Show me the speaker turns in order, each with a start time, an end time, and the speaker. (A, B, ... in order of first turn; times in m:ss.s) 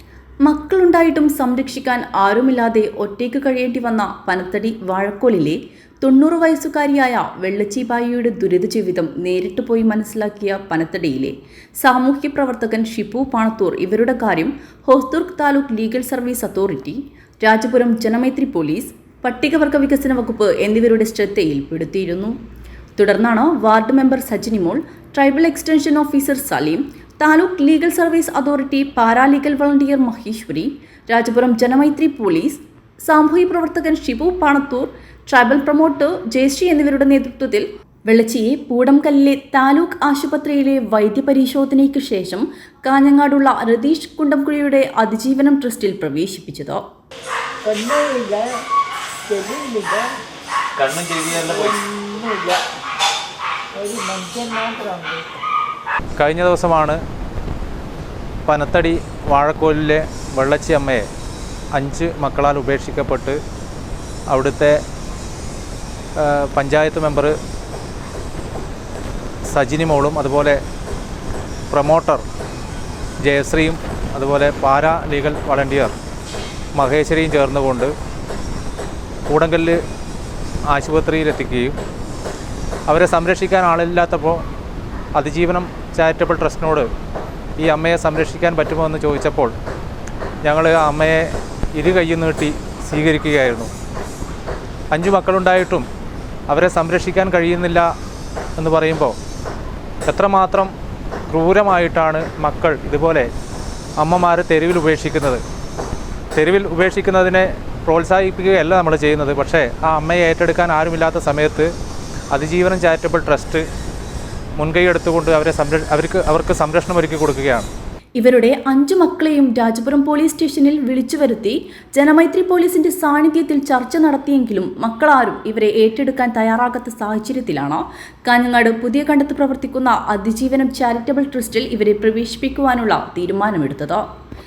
0:00.4-0:22.3 A
0:23.0-0:46.8 A
0:47.6-0:48.6 B
0:49.3-0:50.1 B
0:50.8-0:51.3 C
0:51.3-0:52.6 B
0:53.8-0:55.2 B
0:56.2-0:57.0 C
0:58.4-1:01.0 C
1:01.7-1:03.4 C
1:04.3-1:04.8 C
1:06.2-1:07.3 C
1:09.5-1:10.6 C
1:11.7-1:12.2 C
1:13.2-1:15.9 C
1:16.8-1:17.9 C
1:19.3-1:19.8 C
1:20.7-1:21.8 C
1:22.9-1:24.4 C
1:25.2-1:26.9 C
1:27.6-1:29.5 C
1:30.4-1:33.7 C
1:34.9-1:35.8 C
1:36.5-1:37.8 C
1:38.6-1:39.2 C
1:40.1-1:40.7 C
1:41.3-1:43.3 C
1:44.0-1:45.4 C
1:46.4-1:51.7 C
1:52.3-1:53.6 C
1:54.6-1:57.7 C
1:58.2-2:14.0 A